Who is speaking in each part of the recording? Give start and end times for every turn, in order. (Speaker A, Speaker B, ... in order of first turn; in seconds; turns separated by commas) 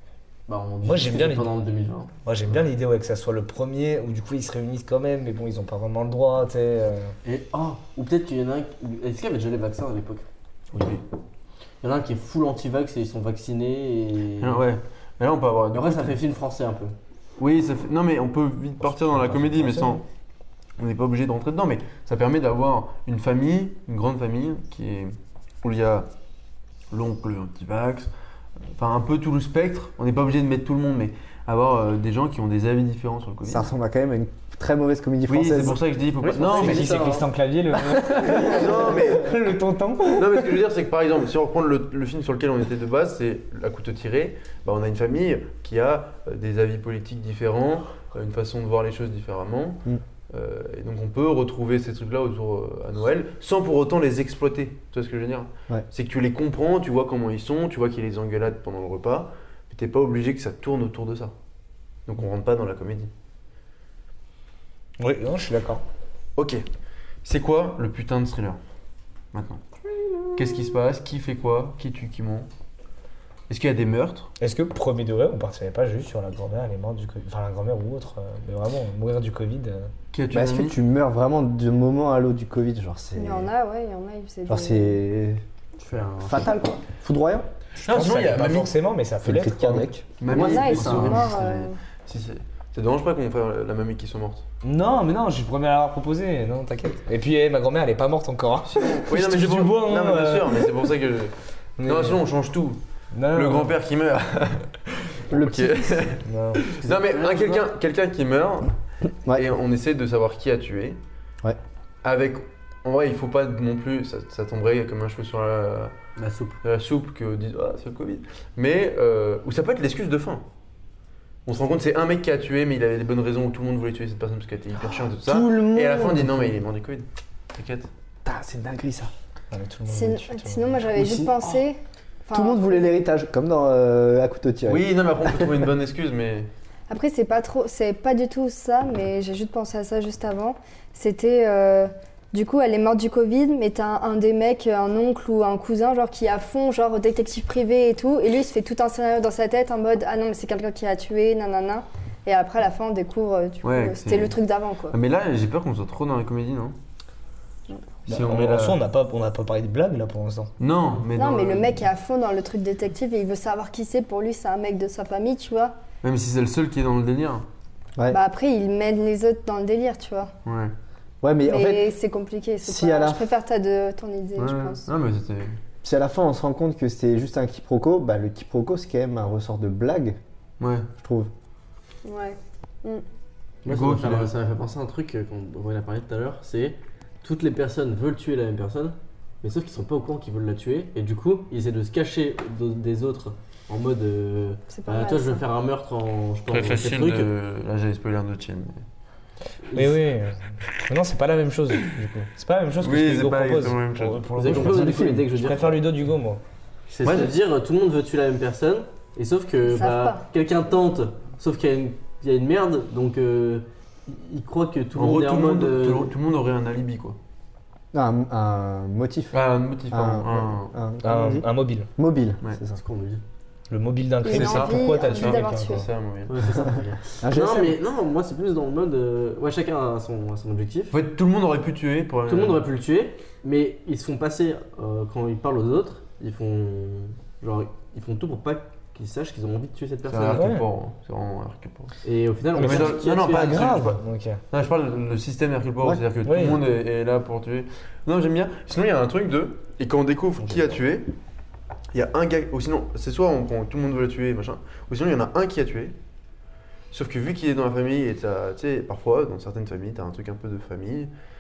Speaker A: 0.5-2.1, Speaker B: 0.8-1.5, Speaker B: 2.2-7.1, Speaker A: 7.2-10.2, Speaker A: 11.8-14.6, Speaker C: 14.4-16.2, Speaker A: 15.7-16.9, Speaker C: 17.4-20.0, Speaker B: 18.8-20.0, Speaker C: 20.8-26.1, Speaker C: 26.9-28.1, Speaker C: 28.7-33.7, Speaker D: 33.5-35.8, Speaker C: 35.3-37.0, Speaker A: 36.2-37.3, Speaker B: 36.5-40.6, Speaker D: 38.0-38.5, Speaker C: 38.2-39.3, Speaker C: 40.1-61.3, Speaker C: 62.1-63.1, Speaker B: 65.0-65.8, Speaker C: 66.4-66.6, Speaker C: 67.2-68.6, Speaker C: 69.3-69.6, Speaker C: 70.3-72.5, Speaker C: 73.5-74.3, Speaker B: 74.4-79.9, Speaker C: 80.1-80.8, Speaker D: 80.3-83.5, Speaker E: 83.2-85.0, Speaker D: 84.5-85.4, Speaker A: 85.8-86.5, Speaker D: 86.2-87.5, Speaker C: 87.8-88.7, Speaker B: 87.9-89.9, Speaker D: 89.2-90.1, Speaker C: 90.2-94.5, Speaker A: 90.2-91.3, Speaker E: 90.3-91.8, Speaker B: 94.6-100.7, Speaker C: 98.7-102.8, Speaker B: 101.8-102.2, Speaker B: 103.1-103.8, Speaker C: 103.3-108.7, Speaker D: 105.3-106.0, Speaker B: 106.2-106.7, Speaker A: 106.8-107.7, Speaker C: 109.3-111.0, Speaker C: 112.0-115.9, Speaker A: 116.2-116.6, Speaker C: 116.6-120.5, Speaker C: 121.5-127.9, Speaker D: 125.2-126.6, Speaker D: 128.2-129.1, Speaker B: 129.5-130.8, Speaker E: 129.9-133.0, Speaker D: 130.9-131.3, Speaker D: 132.3-134.9, Speaker C: 134.7-136.5, Speaker E: 136.9-155.0, Speaker C: 153.6-154.4, Speaker C: 154.9-156.8, Speaker C: 158.1-158.8, Speaker B: 158.1-160.5, Speaker C: 160.6-161.8, Speaker E: 161.2-165.8, Speaker C: 166.0-167.5, Speaker E: 168.1-170.3, Speaker C: 170.4-170.7, Speaker D: 171.2-171.9, Speaker E: 171.5-174.9, Speaker D: 172.7-173.2, Speaker C: 174.4-175.6, Speaker D: 175.8-180.2, Speaker C: 180.6-180.9, Speaker D: 181.0-181.3, Speaker E: 182.1-183.0, Speaker A: 183.7-197.3, Speaker C: 183.7-184.3, Speaker E: 194.7-195.4, Speaker C: 196.5-198.8, Speaker A: 199.7-200.0, Speaker B: 199.7-206.4, Speaker C: 202.8-204.6, Speaker A: 204.4-205.8, Speaker D: 204.5-205.3, Speaker A: 206.9-216.1, Speaker C: 207.0-207.3, Speaker E: 209.7-210.2, Speaker C: 214.9-217.2, Speaker D: 217.9-219.3, Speaker C: 219.3-220.8, Speaker D: 219.9-222.8, Speaker B: 221.0-221.9, Speaker A: 222.8-223.2, Speaker B: 223.7-225.9, Speaker E: 224.2-225.9, Speaker C: 224.3-226.7, Speaker A: 226.3-230.9, Speaker D: 227.2-227.8, Speaker C: 230.9-232.7, Speaker A: 232.3-240.5, Speaker C: 240.1-242.0, Speaker B: 240.3-240.7, Speaker A: 242.1-243.8, Speaker B: 242.6-244.4, Speaker C: 242.6-251.1, Speaker B: 246.2-246.6, Speaker B: 250.4-250.7, Speaker C: 251.9-255.9, Speaker C: 256.9-261.1